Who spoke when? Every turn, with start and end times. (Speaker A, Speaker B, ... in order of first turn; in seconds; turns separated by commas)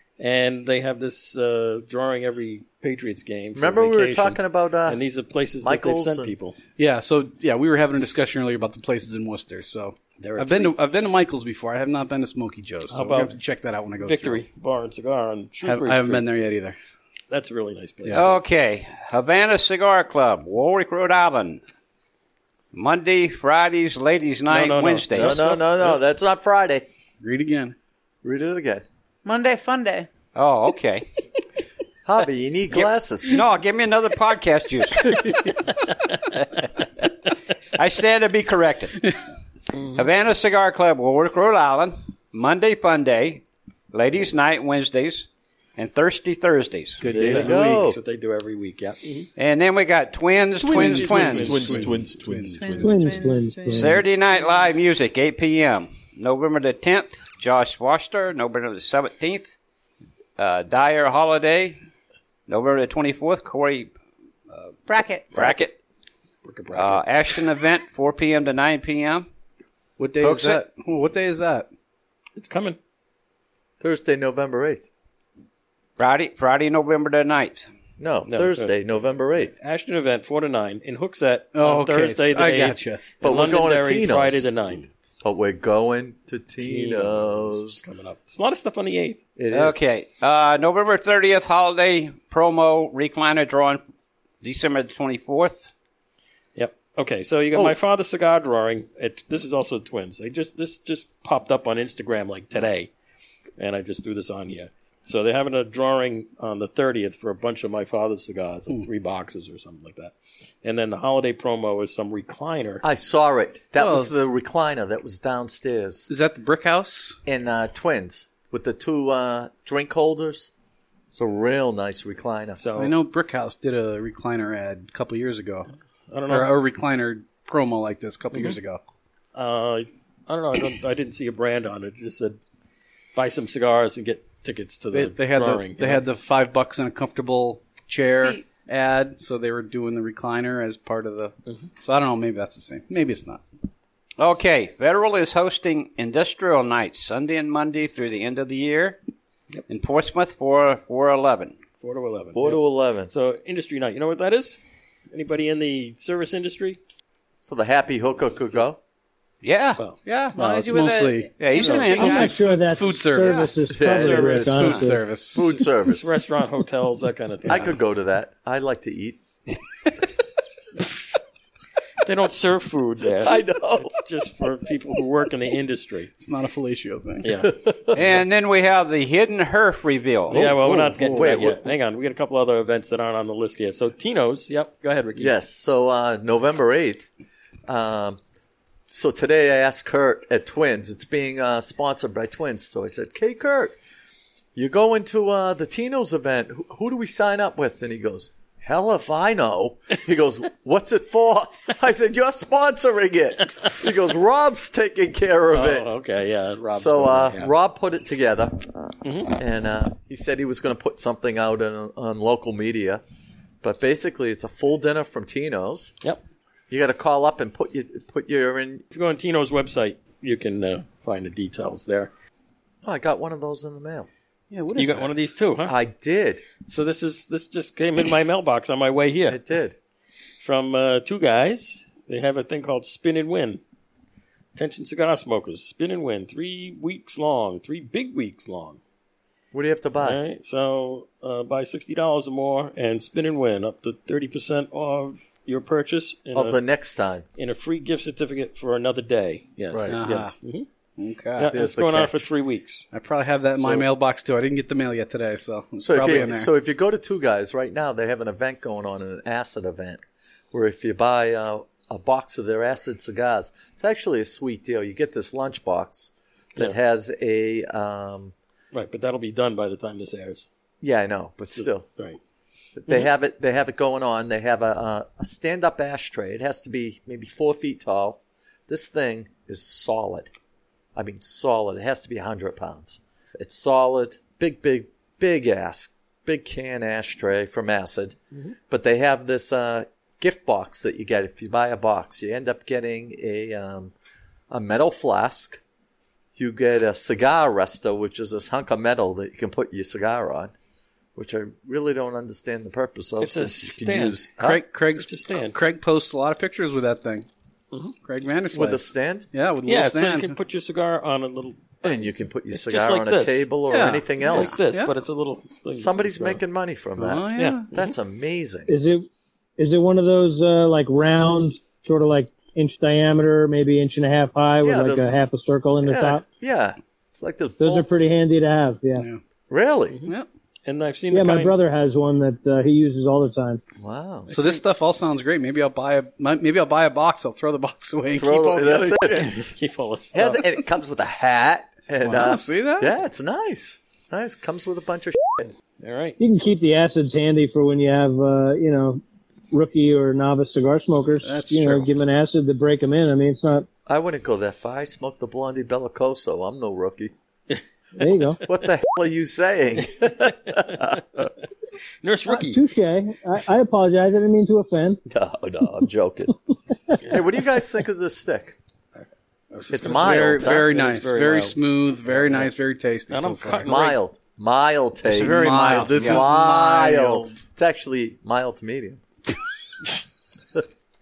Speaker A: 0.2-6.5, Speaker B: 3.5-5.0, Speaker B: 5.6-6.3, Speaker C: 6.8-14.4, Speaker A: 10.2-10.7, Speaker A: 12.9-13.3, Speaker A: 14.0-16.2, Speaker C: 15.6-16.8, Speaker A: 17.3-18.4, Speaker C: 18.0-18.3, Speaker D: 18.1-21.6, Speaker D: 22.7-25.4, Speaker A: 24.5-26.0, Speaker B: 25.1-26.9, Speaker C: 27.2-27.7, Speaker B: 28.2-28.8, Speaker E: 29.2-30.1, Speaker D: 30.3-31.1, Speaker B: 32.0-33.4, Speaker D: 32.7-35.1, Speaker D: 37.7-39.0, Speaker D: 39.9-47.0, Speaker C: 47.0-47.9, Speaker B: 47.1-48.0, Speaker A: 47.2-49.3, Speaker D: 49.4-51.7, Speaker B: 50.6-53.0, Speaker C: 50.6-53.4, Speaker A: 51.0-51.9, Speaker E: 52.6-54.5, Speaker F: 52.8-54.0, Speaker D: 53.7-59.5, Speaker D: 60.4-61.8, Speaker D: 62.5-63.9, Speaker E: 64.9-65.3, Speaker D: 65.3-65.7, Speaker A: 66.4-67.0, Speaker D: 66.7-69.3, Speaker C: 70.0-71.7, Speaker D: 70.2-70.6, Speaker A: 72.4-72.8, Speaker B: 73.8-74.8, Speaker D: 76.0-77.7, Speaker B: 78.0-79.5, Speaker A: 78.3-78.7, Speaker A: 79.6-84.9, Speaker C: 81.5-83.0, Speaker B: 83.2-84.5, Speaker B: 85.2-87.8, Speaker A: 86.6-89.2, Speaker B: 89.3-89.8, Speaker D: 89.5-93.8, Speaker D: 94.4-95.7, Speaker A: 96.5-102.9, Speaker A: 103.6-112.8, Speaker B: 112.8-116.1, Speaker C: 113.8-114.1, Speaker C: 116.1-117.2, Speaker B: 117.2-120.5, Speaker B: 121.1-122.6, Speaker A: 122.6-122.9, Speaker C: 122.8-125.7, Speaker A: 126.1-126.5, Speaker C: 126.3-128.8, Speaker A: 129.3-132.4, Speaker A: 133.1-136.0, Speaker C: 134.9-143.4, Speaker E: 138.1-138.4, Speaker D: 144.2-149.0, Speaker D: 149.7-151.6, Speaker A: 151.8-154.6, Speaker B: 152.3-153.1, Speaker A: 155.1-156.8, Speaker B: 157.4-158.8, Speaker D: 159.4-160.4, Speaker E: 160.3-162.4, Speaker C: 160.3-165.5, Speaker D: 161.4-162.3, Speaker A: 161.6-161.8, Speaker F: 162.0-165.0, Speaker B: 163.7-164.5, Speaker D: 164.0-164.9, Speaker B: 165.3-166.1, Speaker A: 165.9-167.8, Speaker B: 167.4-169.2, Speaker A: 172.0-176.1, Speaker B: 173.2-174.0, Speaker C: 176.2-177.3, Speaker A: 177.2-177.5, Speaker B: 177.4-178.0, Speaker D: 177.9-180.4, Speaker B: 180.3-181.6, Speaker A: 180.3-185.3, Speaker B: 185.2-187.1, Speaker B: 187.7-188.2, Speaker B: 188.9-193.8, Speaker B: 194.5-205.9, Speaker A: 205.5-207.5, Speaker B: 206.7-208.7, Speaker A: 209.0-209.3, Speaker B: 209.3-213.0, Speaker B: 213.6-215.9, Speaker B: 216.7-218.8, Speaker A: 218.9-222.1, Speaker B: 222.8-224.1, Speaker C: 224.5-225.1, Speaker A: 224.8-225.7, Speaker B: 225.7-226.4, Speaker A: 226.7-229.4, Speaker B: 229.3-229.8, Speaker A: 230.4-233.6, Speaker A: 234.5-238.8, Speaker B: 239.5-240.2, Speaker A: 240.0-246.6, Speaker B: 246.3-247.2, Speaker A: 247.4-250.7, Speaker C: 249.9-250.3, Speaker C: 251.0-251.5, Speaker A: 251.4-252.8, Speaker B: 251.5-252.2, Speaker C: 252.9-256.5, Speaker B: 255.8-260.0, Speaker B: 260.5-268.3, Speaker A: 268.7-270.5, Speaker B: 270.8-271.9, Speaker A: 271.5-272.2, Speaker B: 272.8-280.3, Speaker B: 280.9-288.2, Speaker B: 288.7-293.9, Speaker B: 294.5-295.6, Speaker B: 296.4-300.5, Speaker B: 301.1-304.6, Speaker A: 303.2-304.3, Speaker C: 304.4-307.3, Speaker A: 304.9-305.6, Speaker C: 308.0-310.4, Speaker B: 308.5-309.3, Speaker A: 309.6-313.5, Speaker B: 311.8-314.6, Speaker C: 313.7-314.9, Speaker A: 314.2-316.4, Speaker B: 315.7-318.7, Speaker C: 317.0-317.7, Speaker A: 317.4-317.9, Speaker F: 318.7-326.2, Speaker B: 324.6-325.1, Speaker B: 325.8-327.9, Speaker F: 327.6-329.1, Speaker B: 329.5-330.0, Speaker A: 330.6-331.6, Speaker F: 331.1-333.6, Speaker B: 333.8-334.3, Speaker A: 334.3-334.6, Speaker C: 334.3-339.0, Speaker B: 338.1-339.5, Speaker A: 339.1-340.5, Speaker B: 340.1-345.5, Speaker C: 342.0-342.9, Speaker A: 345.8-346.2, Speaker F: 346.2-353.7, Speaker C: 351.2-351.9, Speaker B: 353.9-357.1, Speaker F: 358.0-358.4, Speaker B: 358.4-361.0, Speaker A: 359.9-361.3, Speaker A: 362.0-362.6, Speaker F: 362.3-365.0, Speaker B: 365.1-366.3, Speaker B: 367.1-368.6, Speaker A: 368.9-371.6, Speaker B: 369.7-370.7, Speaker C: 369.8-373.7, Speaker A: 372.1-372.5, Speaker A: 373.1-374.0, Speaker B: 373.5-379.0, Speaker C: 375.1-377.3, Speaker D: 375.1-376.6